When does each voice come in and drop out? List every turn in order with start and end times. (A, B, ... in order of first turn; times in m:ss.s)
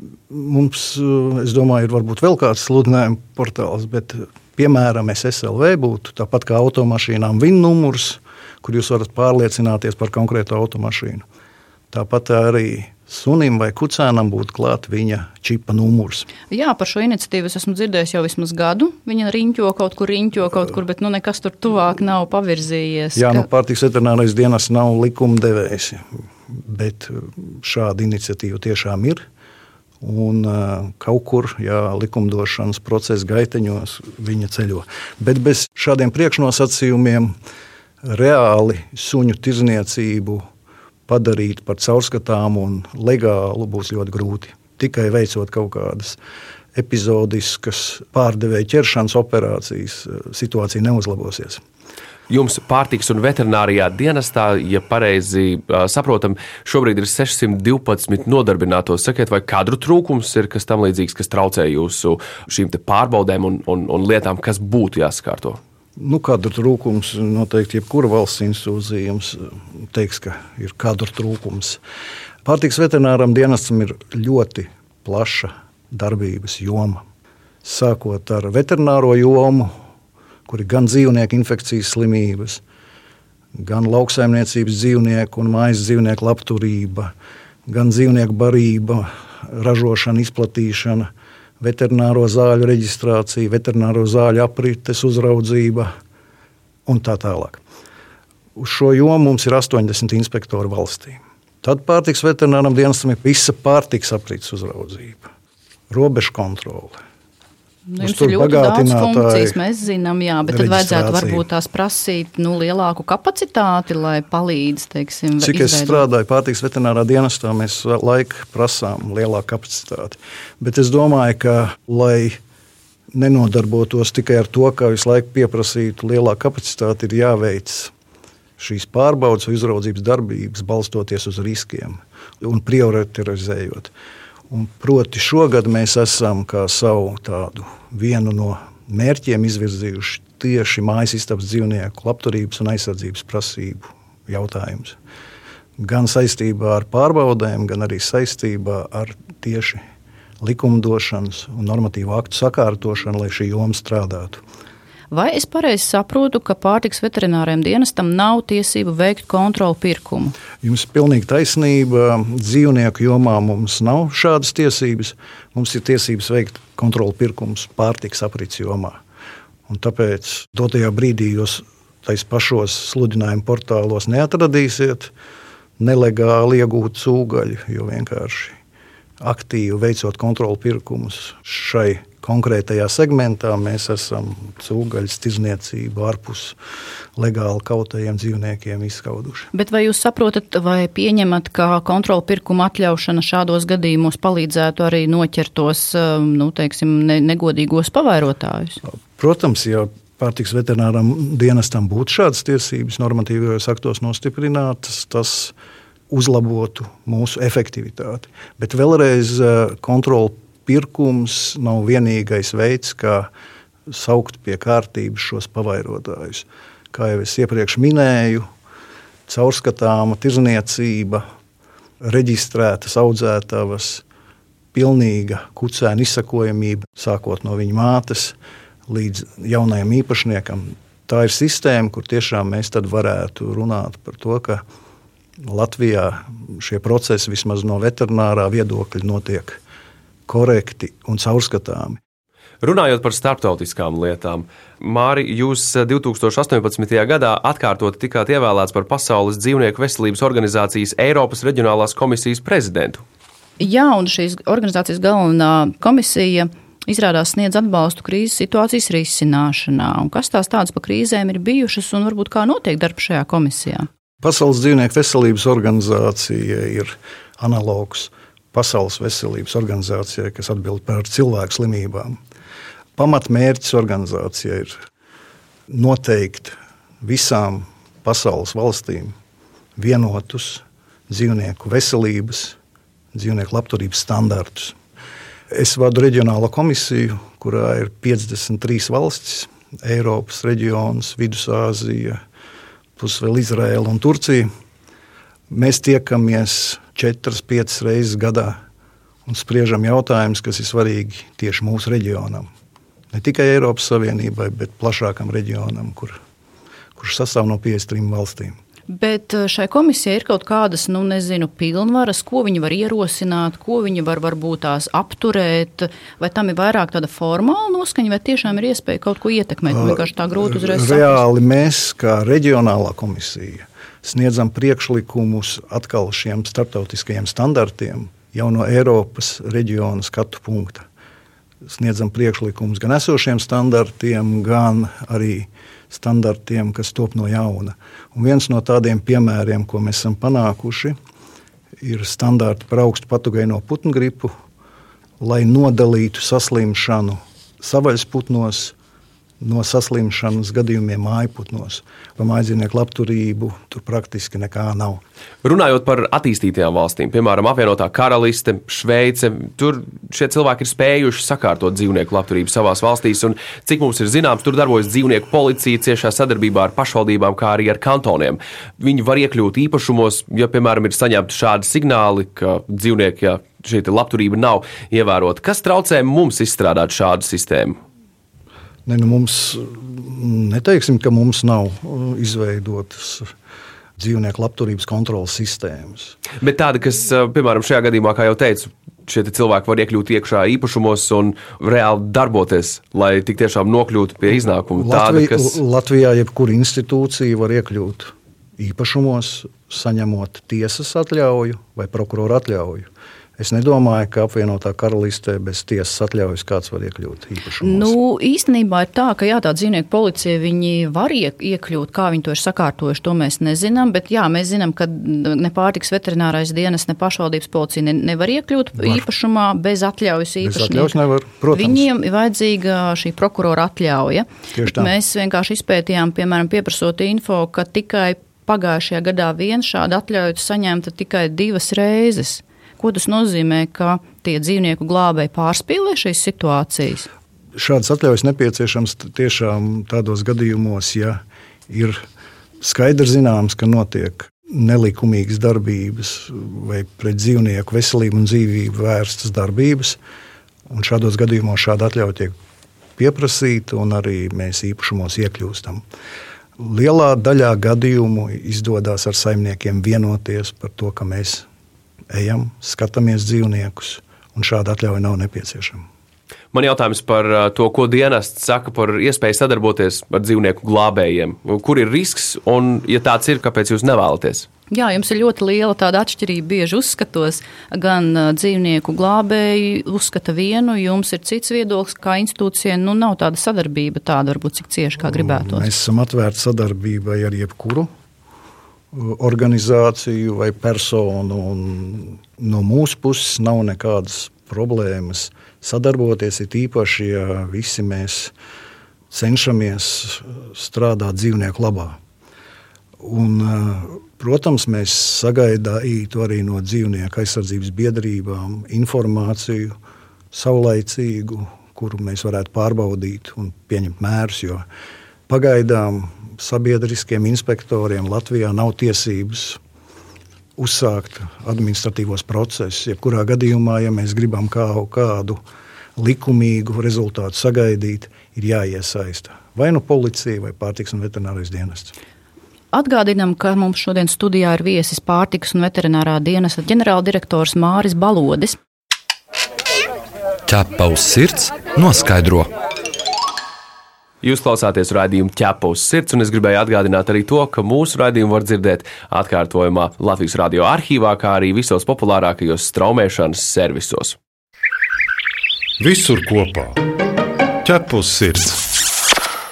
0:00.3-0:11.2 A
0:11.9-0:16.3 A
0:16.5-0:23.5 B
0:23.2-0:29.2 A
0:30.0-0:37.3 A
0:38.0-0:40.4 A
0:41.1-0:46.2 A
0:46.8-0:51.6 A
0:52.3-1:05.6 C
1:06.0-1:11.8 A
1:12.4-1:17.0 A
1:17.6-1:19.7 A
1:20.5-1:22.6 A
1:23.6-1:27.1 A
1:27.7-1:35.9 A
1:36.9-1:37.6 A
1:38.6-1:45.3 A
1:45.9-1:47.0 A
1:47.9-1:56.0 B
1:48.0-1:49.6 A
1:50.5-1:51.4 A
1:55.4-2:02.4 A
2:03.1-2:07.9 A
2:08.6-2:13.9 A
2:14.5-2:25.0 A
2:25.8-2:29.8 A
2:30.4-2:34.4 A
2:35.1-2:40.4 B
2:40.6-2:49.0 A
2:49.7-2:55.1 A
2:55.8-2:58.6 A
2:59.2-3:06.6 A
3:07.2-3:09.5 A
3:09.5-3:18.8 B
3:19.2-3:25.5 A
3:26.1-3:33.3 A
3:33.9-3:38.5 A
3:39.3-3:41.2 A
3:42.0-3:44.0 A
3:44.7-3:54.6 A
3:55.4-3:59.6 A
4:00.3-4:02.0 A
4:02.6-4:13.0 C
4:13.6-4:23.9 B
4:24.2-4:32.2 A
4:33.0-4:34.8 A
4:35.7-4:39.2 A
4:39.8-4:42.6 A
4:43.1-4:44.8 A
4:45.5-4:52.2 A
4:53.0-4:54.5 A
4:55.5-4:58.6 A
4:59.3-5:02.5 A
5:03.1-5:06.2 A
5:07.0-5:08.6 A
5:08.9-5:21.2 B
5:19.7-5:30.9 A
5:31.7-5:41.0 A
5:41.8-5:44.3 A
5:45.2-5:48.8 A
5:49.4-5:55.0 A
5:55.4-6:17.8 C
6:18.9-6:23.3 A
6:24.0-6:26.2 A
6:26.4-6:35.6 C
6:34.8-6:48.0 A
6:47.6-7:01.0 B
7:00.4-7:01.9 A
7:01.5-7:17.1 B
7:04.5-7:04.9 A
7:17.6-7:22.0 A
7:22.6-7:30.0 A
7:30.7-7:32.4 A
7:33.0-7:35.8 A
7:36.6-7:41.5 A
7:42.1-7:45.8 A
7:46.5-7:54.5 C
7:54.7-8:05.7 B
8:05.1-8:07.9 A
8:08.9-8:18.3 A
8:19.1-8:22.0 A
8:23.0-8:29.8 A
8:30.3-8:34.6 A
8:35.3-8:39.6 A
8:40.6-8:45.4 A
8:46.0-8:51.9 A
8:52.7-8:58.6 B
9:00.5-9:02.5 D
9:04.2-9:14.2 C
9:15.8-9:16.8 E
9:17.6-9:18.6 E